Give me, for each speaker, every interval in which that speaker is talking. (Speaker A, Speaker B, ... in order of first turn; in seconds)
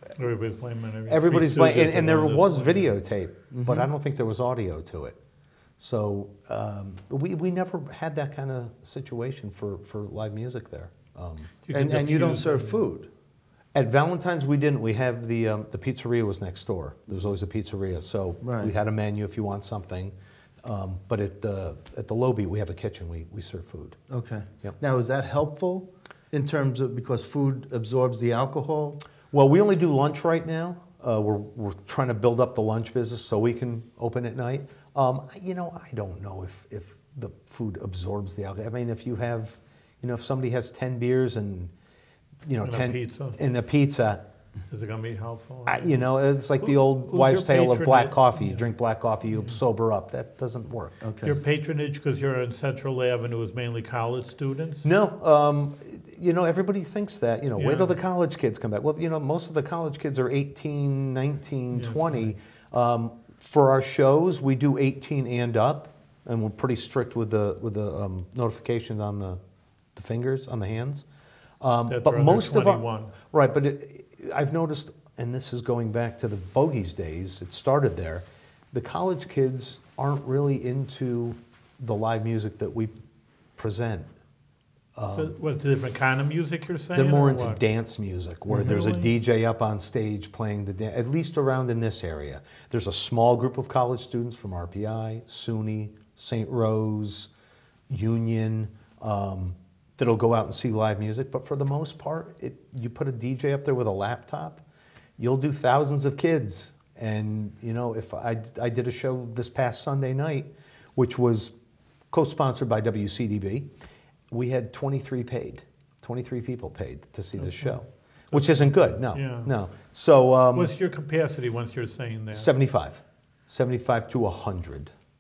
Speaker A: 0.2-2.9, 11.7-12.8, 42.6-43.4, 44.7-46.0, 46.6-48.6, 51.2-54.9, 57.6-58.0, 61.7-62.3, 71.9-73.1, 85.1-87.6, 88.6-89.1, 117.4-117.8, 118.3-119.5, 120.5-122.5
Speaker B: 1.1-5.2, 5.8-11.5, 13.7-24.0, 29.3-41.7, 42.5-44.2, 45.7-51.0, 54.8-69.4, 70.0-71.1, 71.6-82.9, 83.6-84.1, 85.0-85.3, 86.9-97.3, 97.9-104.6, 105.2-111.5, 112.1-113.7, 114.3-120.7, 122.3-124.9
Speaker C: 3.6-3.9, 11.7-13.1, 18.4-18.7, 24.1-29.0, 51.0-51.4